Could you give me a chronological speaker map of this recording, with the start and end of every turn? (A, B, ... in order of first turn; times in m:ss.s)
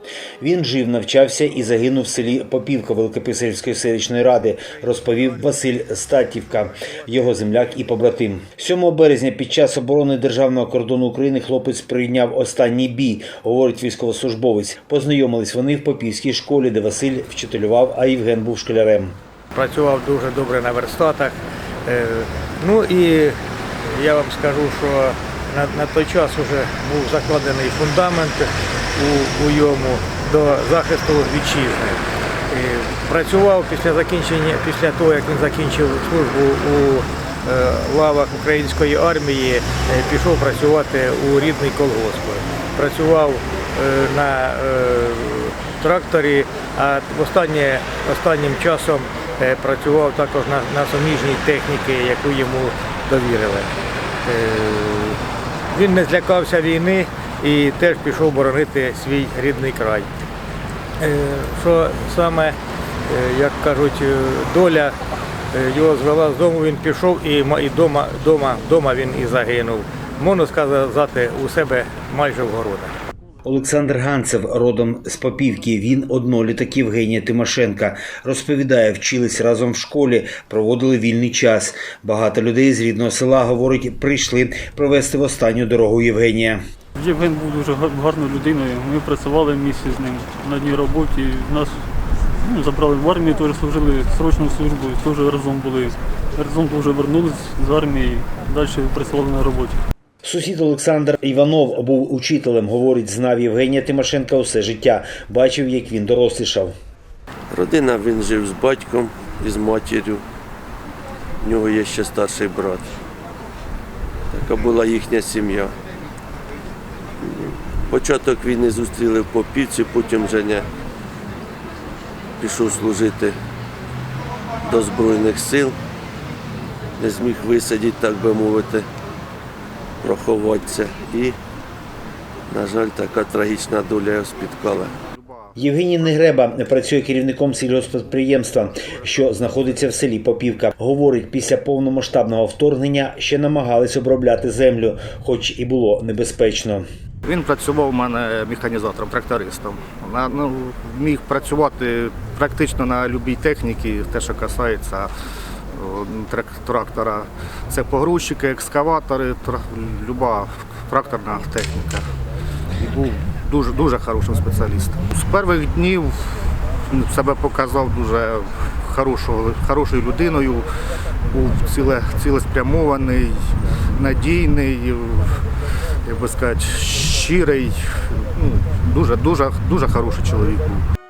0:00.4-0:19.2 A
0:19.5-0:53.7 B
0:54.2-1:00.1 B
1:01.0-1:05.0 B
1:05.5-1:12.9 B
1:13.4-1:26.6 A
1:27.0-1:31.8 C
1:32.4-1:39.8 C
1:40.2-1:46.7 A
1:47.5-1:50.2 D
1:51.4-1:52.9 D
1:54.3-1:55.7 D
1:57.2-2:00.7 D
2:02.4-2:03.4 D
2:04.6-2:05.8 D
2:07.0-2:08.9 D
2:10.0-2:11.4 D
2:12.5-2:15.0 D
2:15.1-2:15.5 E
2:15.6-2:26.8 A
2:27.2-2:35.1 E
2:35.7-2:42.1 E
2:42.8-2:50.7 E
2:51.3-2:55.4 E
2:56.0-3:00.8 E